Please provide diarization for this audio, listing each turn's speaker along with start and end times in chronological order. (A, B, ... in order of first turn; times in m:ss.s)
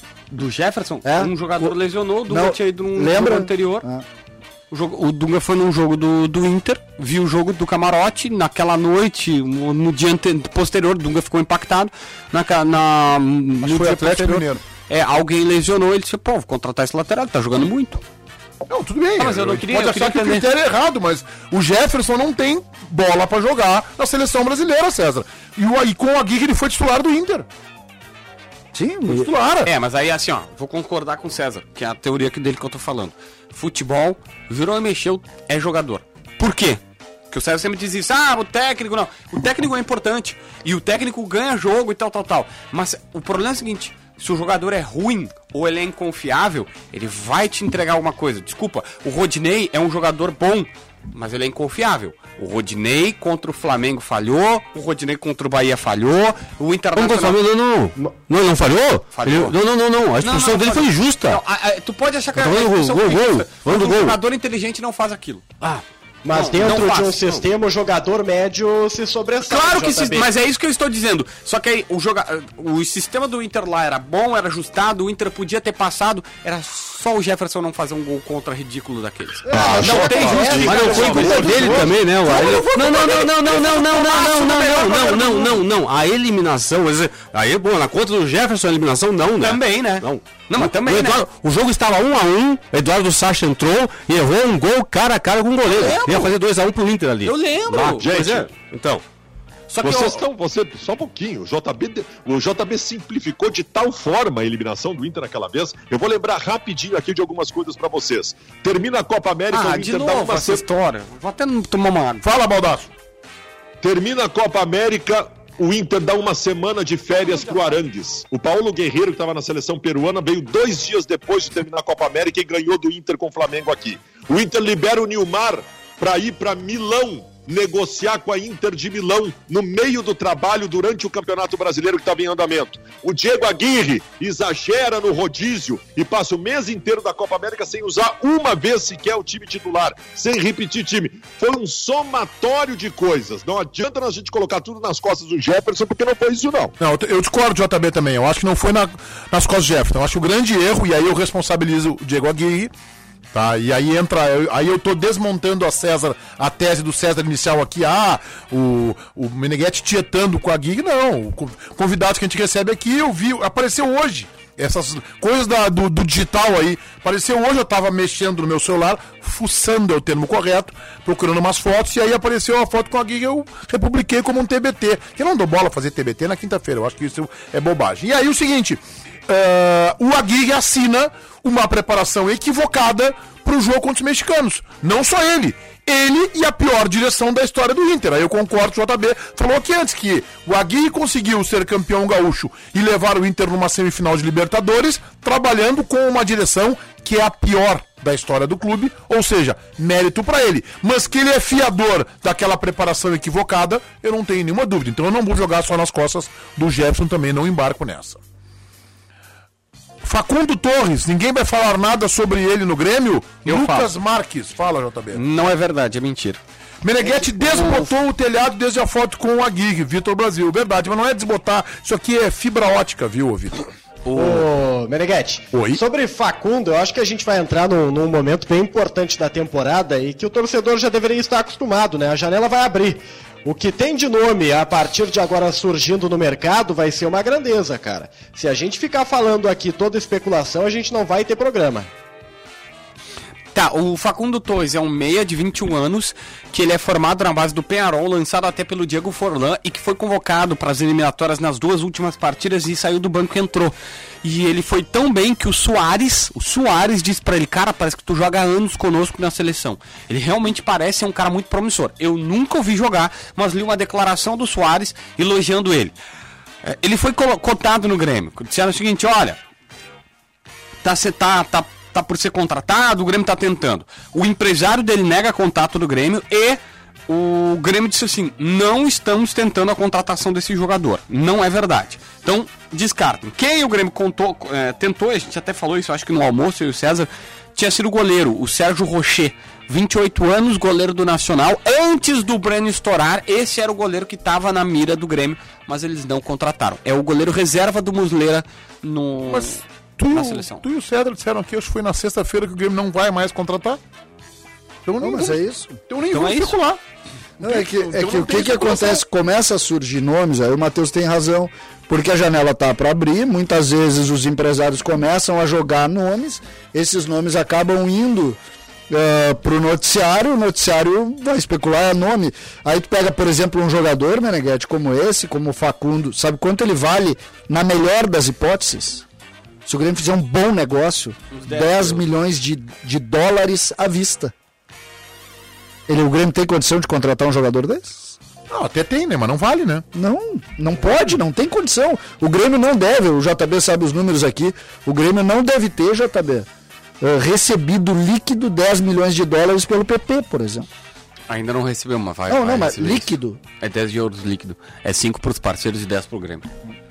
0:00.3-0:03.9 A
0:01.0-0:01.7 B
0:02.3-0:04.0 B
0:04.7-0:18.0 A
0:13.6-0:14.6 C
0:18.7-0:27.4 C
0:19.2-0:20.5 A
0:28.7-0:29.3 B
0:29.0-0:29.7 C
0:29.6-0:57.4 A
0:57.0-1:01.4 D
0:59.1-0:59.6 A
1:00.2-1:05.5 A
1:02.3-1:04.2 D
1:06.2-1:10.3 E
1:06.3-1:07.4 A
1:09.4-1:25.6 A
1:19.5-1:21.9 E
1:19.5-1:21.9 F
1:20.1-1:39.0 D
1:21.3-1:22.7 C
1:29.4-1:31.2 A
1:35.6-1:36.3 A
1:37.2-1:38.1 A
1:37.9-1:38.5 F
1:39.7-1:40.2 A
1:39.8-1:50.6 F
1:49.5-1:52.2 A
1:52.2-1:52.9 C
1:53.8-2:26.7 F
2:26.8-2:32.7 C
2:33.3-3:28.2 C
3:30.0-3:35.2 C
3:33.4-3:33.9 A
3:35.1-3:36.4 A
3:36.8-3:43.7 C
3:37.0-3:37.9 A
3:44.1-4:01.9 E
3:45.5-3:45.8 C
4:03.5-4:25.9 A
4:26.6-4:29.4 A
4:30.8-5:00.6 A
4:59.2-5:03.8 C
5:04.8-5:06.8 C
5:05.0-5:05.8 B
5:06.1-5:06.6 A
5:07.4-5:29.0 B
5:07.4-5:09.0 C
5:29.6-5:34.3 B
5:31.3-5:32.0 A
5:35.9-5:38.2 B
5:38.5-5:39.8 C
5:39.9-5:46.5 B
5:47.0-5:50.7 B
5:51.3-5:56.4 A
5:52.3-5:53.4 B